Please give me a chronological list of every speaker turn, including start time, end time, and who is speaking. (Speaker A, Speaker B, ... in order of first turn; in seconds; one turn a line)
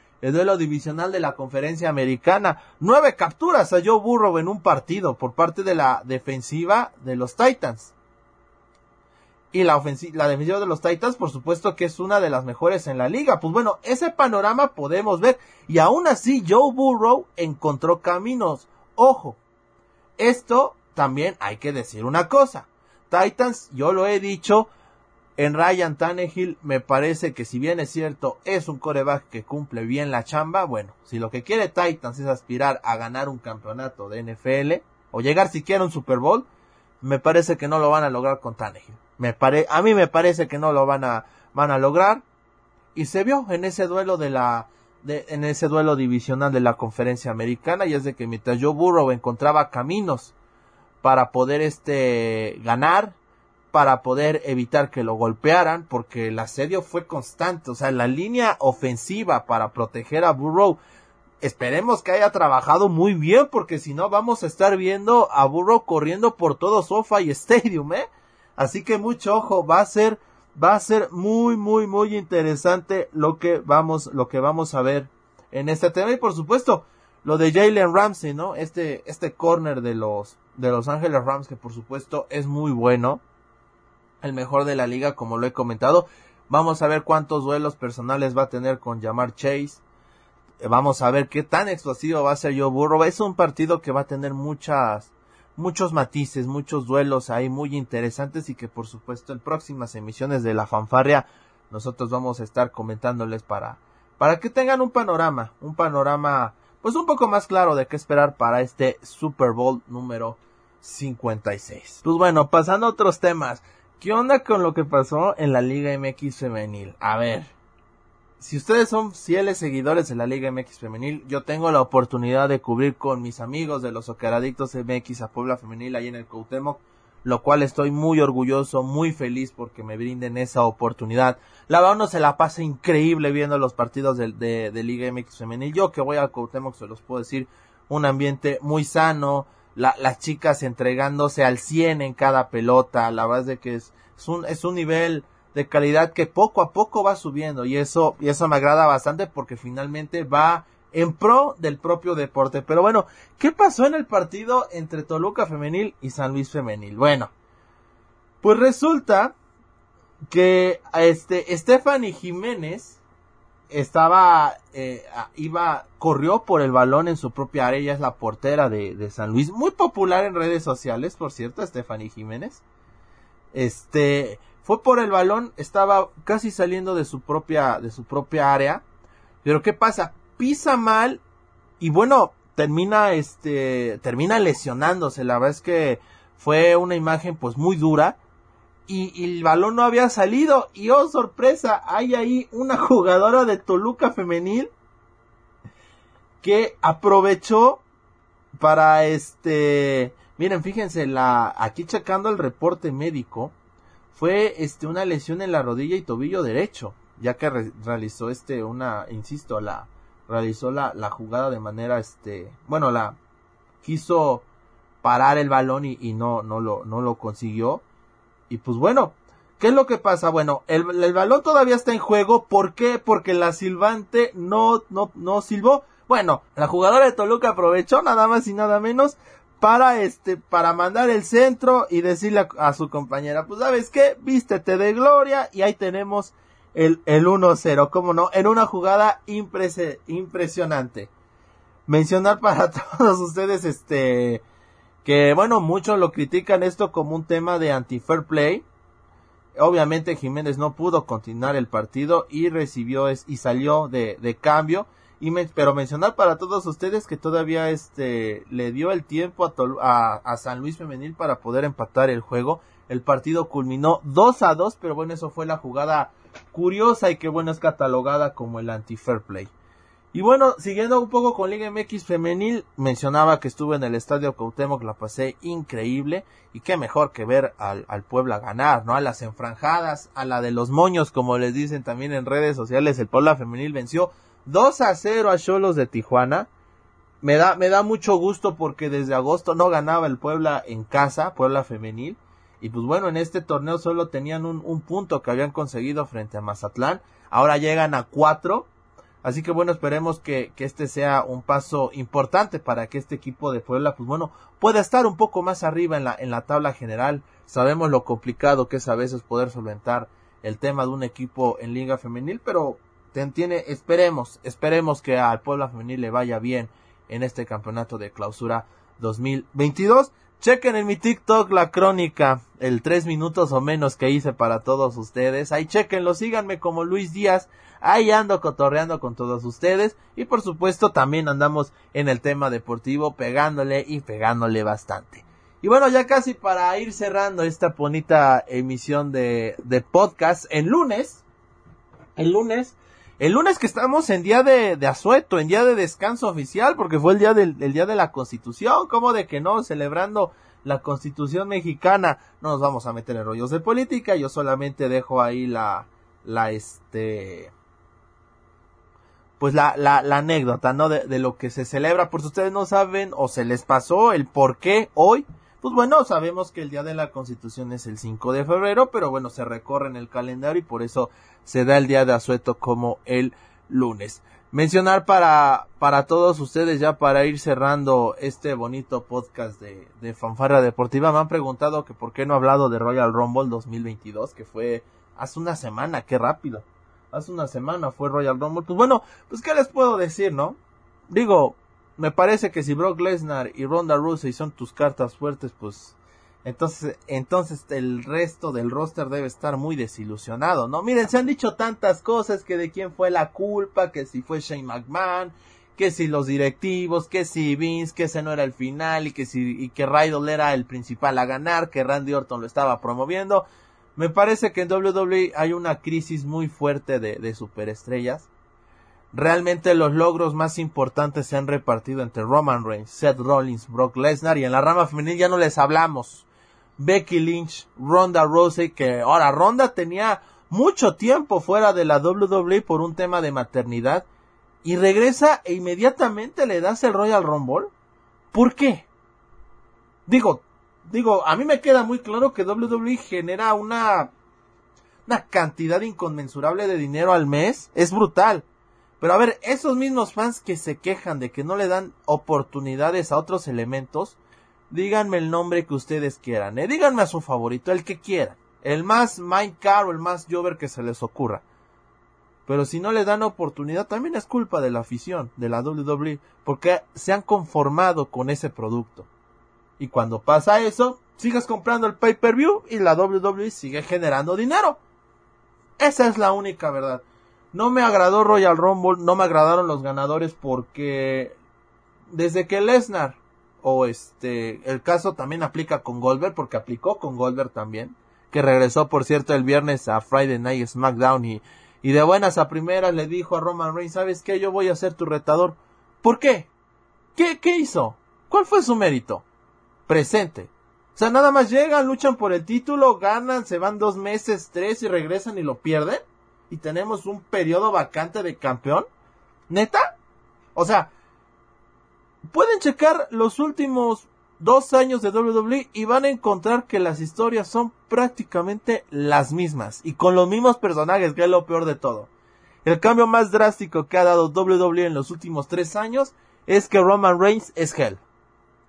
Speaker A: 0.2-7.9
Speaker A: 9.5-19.4
Speaker A: 20.2-24.7
Speaker A: 25.4-36.5
Speaker A: 37.0-42.2
Speaker A: 43.0-50.3
Speaker A: 51.0-53.2
Speaker A: 53.7-60.8
Speaker A: 61.4-83.2
Speaker A: 84.2-89.8
Speaker A: 90.6-117.5
Speaker A: 118.4-157.3
Speaker A: 158.4-159.3
Speaker A: 160.3-163.0
Speaker A: 163.7-172.6
Speaker A: 173.5-178.8
Speaker A: 179.4-181.2
Speaker A: 181.8-188.2
Speaker A: 188.9-194.7
Speaker A: 196.4-197.8
Speaker A: 198.6-203.5
Speaker A: 204.1-213.2
Speaker A: 213.8-214.4
Speaker A: 215.0-217.8
Speaker A: 218.5-241.1
Speaker A: 241.9-244.4
Speaker A: 245.1-248.7
Speaker A: 249.6-269.5
Speaker A: 270.1-286.5
Speaker A: 287.2-298.7
Speaker A: 299.2-341.2
Speaker A: 342.2-357.5
Speaker A: 359.4-390.6
Speaker A: 391.1-413.4
Speaker A: 414.0-418.3
Speaker A: 419.1-426.3
Speaker A: 426.8-434.1
Speaker A: 434.6-437.7
Speaker A: 438.3-438.9
Speaker A: 440.1-444.1
Speaker A: 445.1-448.4
Speaker A: 449.0-454.2
Speaker A: 454.7-461.4
Speaker A: 462.5-469.1
Speaker A: 469.8-474.8
Speaker A: 475.8-481.4
Speaker A: 482.1-496.5
Speaker A: 497.1-499.2
Speaker A: 499.9-508.9
Speaker A: 509.5-510.0
Speaker A: 510.6-510.9
Speaker A: 512.3-522.1
Speaker A: 522.6-528.0